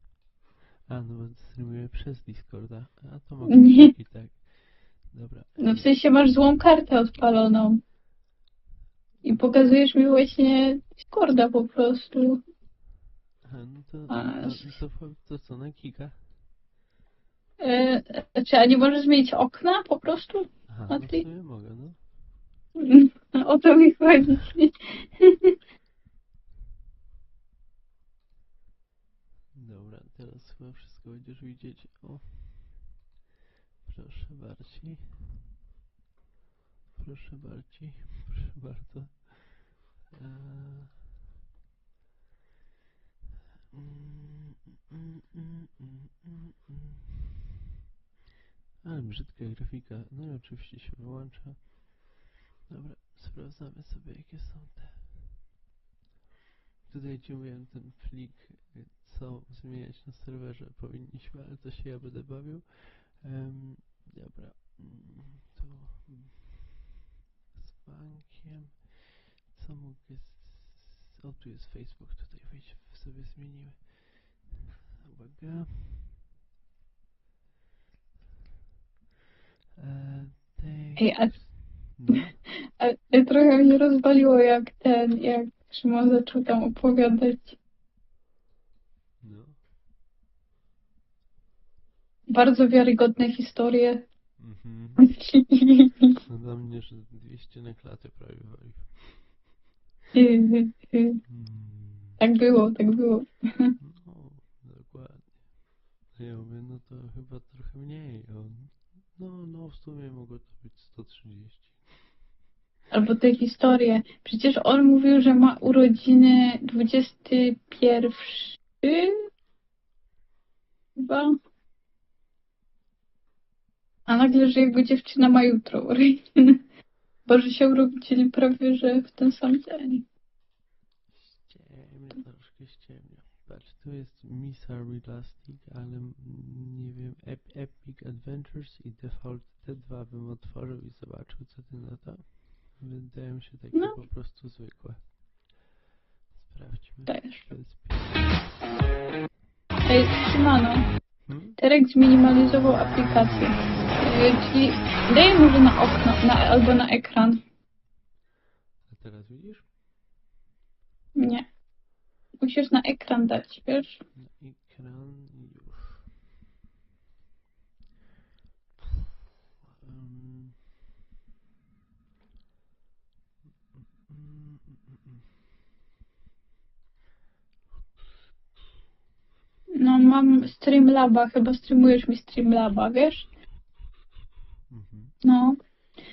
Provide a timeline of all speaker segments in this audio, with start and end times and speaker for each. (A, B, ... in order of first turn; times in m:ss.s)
0:00.8-0:05.9 A
0:03.4-0:03.9 B
0:05.6-0:07.8 B
0:09.2-0:12.4 B
0:13.4-0:16.2 A
0:14.1-0:14.7 B
0:17.6-0:21.2 B
0:20.7-0:22.0 A
0:22.8-0:25.5 B
0:29.5-0:32.9 A
0:33.8-0:35.4 A
0:36.9-0:41.0 A
0:43.7-0:47.0 A
0:48.8-0:52.1 A
0:52.7-0:55.2 A
0:56.9-1:06.8 A
1:07.5-1:16.2 A
1:19.8-1:22.4 A
1:21.0-1:22.0 B
1:22.8-1:27.6 B
1:29.2-1:29.6 A
1:32.3-1:34.0 B
1:34.4-1:35.1 A
1:35.0-1:36.2 B
1:36.2-1:39.4 A
1:40.1-1:41.2 B
1:41.3-1:42.2 A
1:42.2-1:43.8 B
1:43.8-1:52.1 A
1:52.9-1:59.2 B
2:01.0-2:01.4 B
2:04.1-2:06.6 B
2:07.2-2:10.0 B
2:11.1-2:25.2 A
2:23.7-2:24.0 B
2:26.3-2:28.5 A
2:27.1-2:27.4 B
2:29.8-2:37.4 B
2:31.2-2:31.6 A
2:38.9-2:39.6 A
2:41.2-2:41.4 B
2:42.4-2:44.0 B
2:44.1-2:46.0 A
2:49.6-2:50.6 A
2:54.0-2:55.2 A
2:59.7-3:03.3 B
3:04.7-3:05.1 A
3:05.2-3:05.6 B